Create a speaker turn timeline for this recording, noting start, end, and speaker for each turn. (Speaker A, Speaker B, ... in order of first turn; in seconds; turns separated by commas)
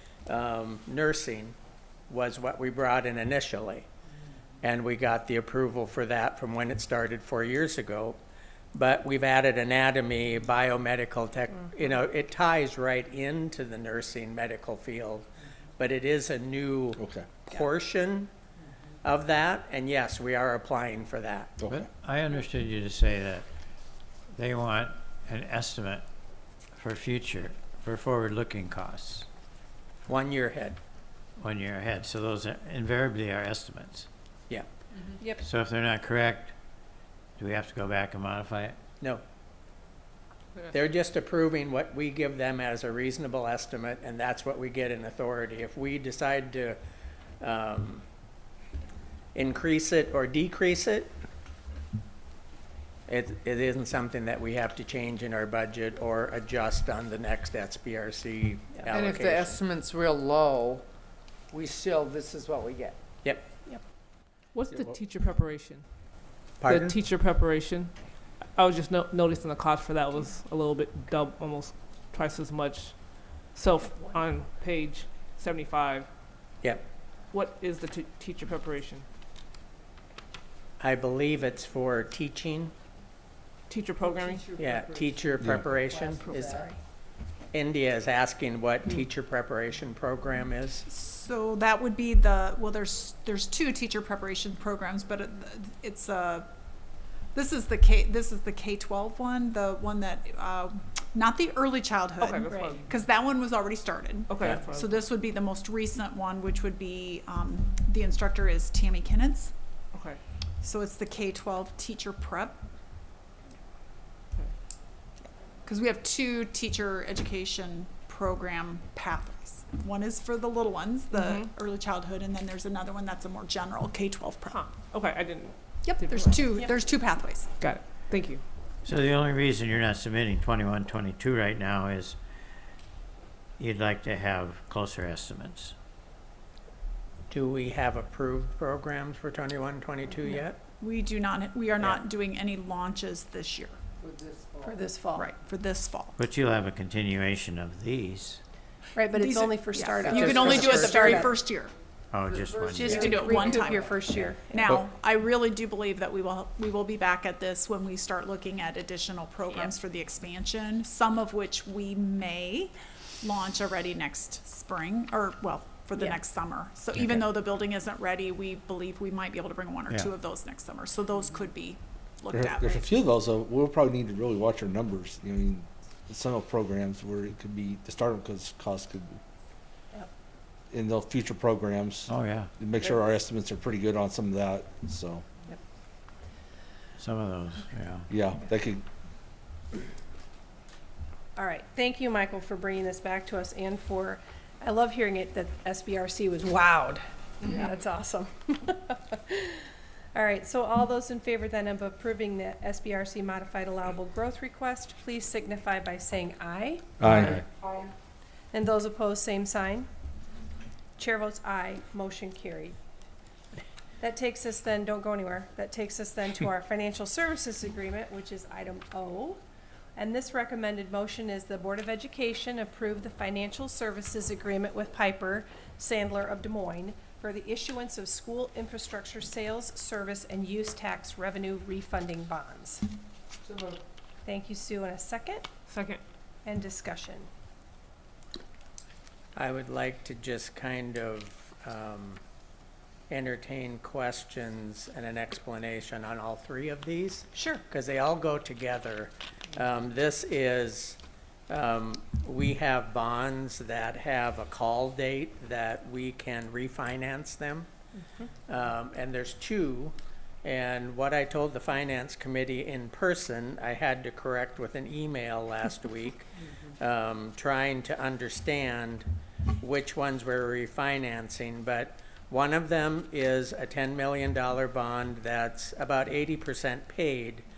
Speaker A: 0.3-1.6, Speaker A: 2.1-3.9, Speaker A: 4.6-8.2, Speaker A: 8.7-15.3, Speaker A: 15.8-18.3, Speaker B: 17.0-17.3, Speaker A: 19.0-21.6, Speaker B: 21.6-21.9, Speaker C: 21.7-23.4, Speaker C: 24.3-26.0, Speaker C: 26.8-29.3, Speaker A: 30.1-30.8, Speaker C: 31.4-34.1, Speaker D: 35.2-35.5, Speaker C: 35.4-36.5, Speaker C: 37.4-38.8, Speaker A: 40.7-46.8, Speaker A: 47.4-48.0, Speaker A: 49.3-51.1, Speaker A: 53.1-59.6, Speaker E: 58.9-60.9, Speaker E: 61.5-63.0, Speaker F: 64.5-76.1, Speaker A: 66.6-67.0, Speaker F: 77.3-79.0, Speaker A: 80.8-82.7, Speaker F: 83.7-84.4, Speaker E: 84.0-85.1, Speaker A: 84.5-86.7, Speaker B: 85.4-85.7, Speaker E: 85.8-86.6, Speaker D: 86.4-86.7, Speaker A: 87.5-90.8, Speaker G: 90.8-96.5, Speaker G: 97.3-109.5, Speaker F: 102.2-102.9, Speaker D: 102.5-102.8, Speaker F: 104.3-105.1, Speaker F: 109.9-110.2, Speaker G: 110.6-112.6, Speaker G: 115.2-124.6, Speaker F: 121.1-121.5, Speaker F: 124.5-126.5, Speaker G: 125.8-127.5, Speaker F: 127.6-128.4, Speaker C: 128.8-132.2, Speaker C: 133.6-135.7, Speaker A: 137.3-140.6, Speaker G: 140.8-143.8, Speaker E: 144.0-144.9, Speaker D: 144.6-145.3, Speaker G: 145.1-146.2, Speaker C: 146.2-148.4, Speaker D: 148.9-151.4, Speaker G: 149.1-151.7, Speaker A: 150.1-151.2, Speaker C: 152.1-153.1, Speaker E: 152.2-154.3, Speaker G: 152.8-153.9, Speaker D: 152.8-154.7, Speaker G: 154.5-172.8, Speaker B: 172.3-179.2, Speaker B: 180.7-185.2, Speaker C: 182.1-182.5, Speaker C: 187.0-188.1, Speaker B: 188.1-188.8, Speaker D: 191.3-207.7, Speaker B: 207.0-207.4, Speaker D: 208.5-209.9, Speaker D: 211.0-212.8, Speaker D: 214.0-219.4, Speaker D: 219.9-232.9, Speaker E: 233.4-233.8, Speaker D: 234.2-235.5, Speaker F: 235.7-236.0, Speaker D: 236.4-237.3, Speaker A: 239.3-242.2, Speaker A: 243.1-257.7, Speaker G: 247.3-247.6, Speaker A: 258.5-269.1, Speaker A: 269.6-277.4